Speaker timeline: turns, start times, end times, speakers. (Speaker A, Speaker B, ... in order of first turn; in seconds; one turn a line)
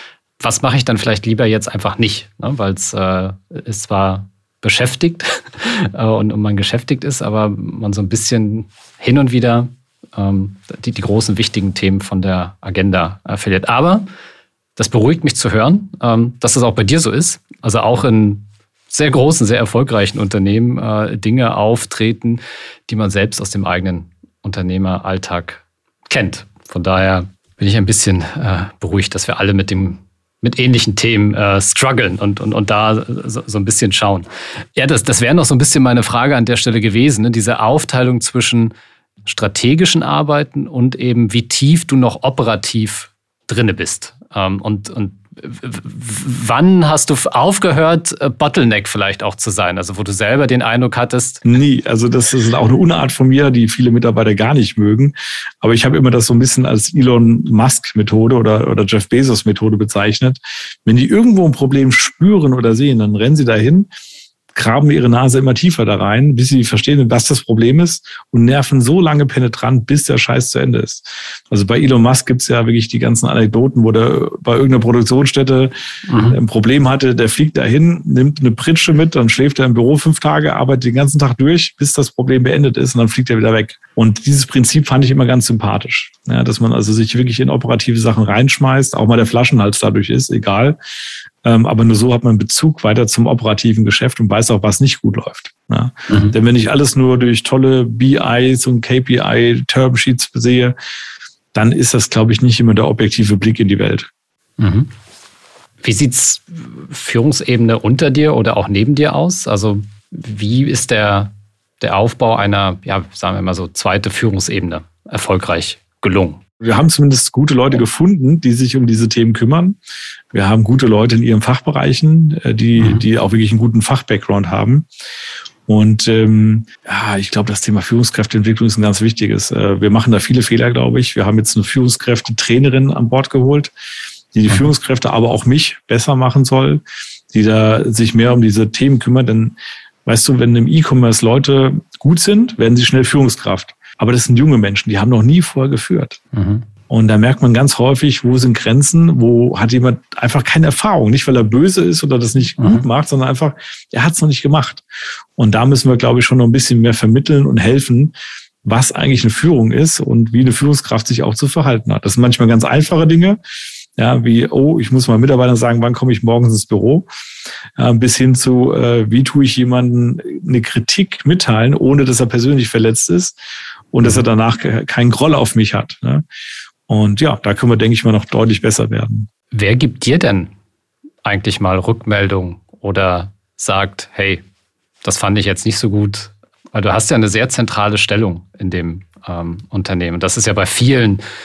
Speaker A: 0.4-14.1
Speaker A: 14.8-38.7
Speaker A: 39.3-51.4
Speaker B: 51.4-63.9
Speaker B: 64.5-75.7
Speaker A: 76.1-76.4
Speaker B: 76.3-90.8
Speaker B: 91.4-100.8
Speaker B: 101.5-104.1
Speaker A: 104.6-104.9
Speaker A: 105.8-116.4
Speaker B: 116.6-119.8
Speaker B: 120.3-124.9
Speaker A: 122.8-123.0
Speaker B: 125.7-133.7
Speaker B: 134.3-146.2
Speaker A: 146.3-146.7
Speaker B: 146.9-154.8
Speaker B: 155.4-163.4
Speaker B: 164.0-167.1
Speaker B: 167.8-173.4
Speaker B: 173.9-176.2
Speaker B: 176.9-179.3
Speaker A: 179.5-180.5
Speaker A: 181.2-184.4
Speaker A: 185.0-191.2